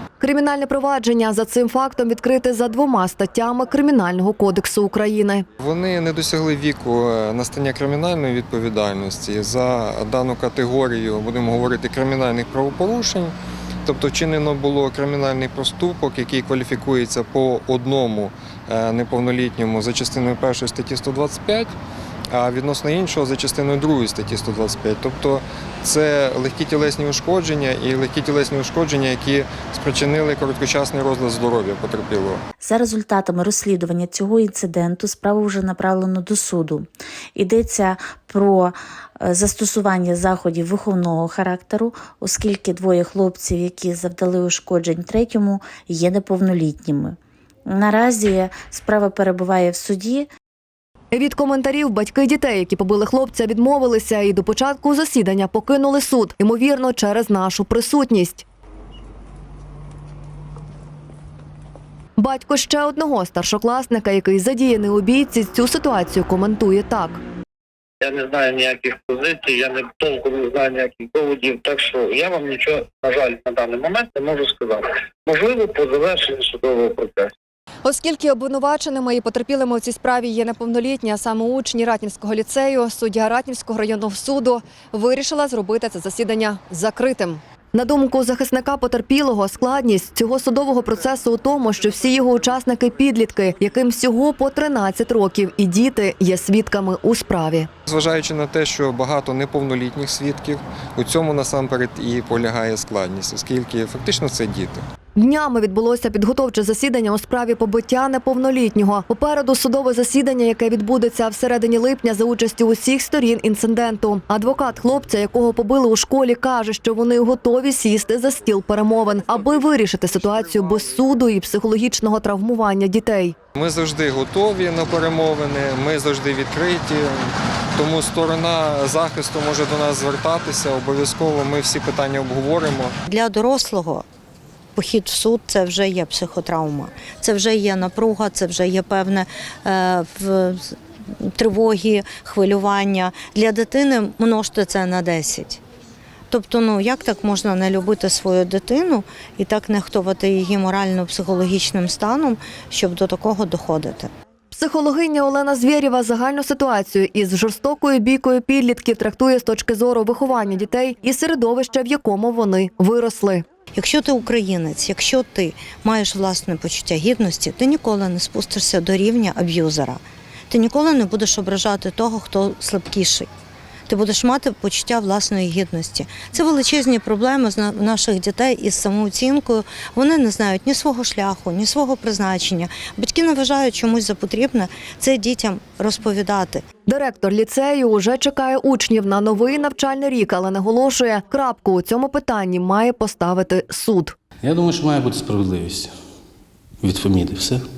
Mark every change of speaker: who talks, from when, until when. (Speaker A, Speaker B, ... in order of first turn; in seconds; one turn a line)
Speaker A: 0.2-5.5
Speaker B: 5.6-13.3
Speaker B: 13.8-21.8
Speaker B: 22.3-32.4
Speaker C: 32.6-50.3
Speaker A: 51.1-58.5
Speaker A: 62.2-67.2
Speaker D: 68.0-77.3
Speaker A: 77.8-97.7
Speaker B: 97.9-104.8
Speaker A: 105.2-123.3
Speaker B: 123.5-133.0
Speaker E: 133.1-134.0
Speaker E: 134.8-140.8
Speaker E: 141.4-145.6
Speaker E: 146.3-154.1
Speaker A: 154.5-163.4
Speaker E: 163.8-173.3
Speaker E: 173.9-186.6
Speaker A: 186.9-194.2
Speaker F: 194.4-195.9
Speaker F: 196.8-197.6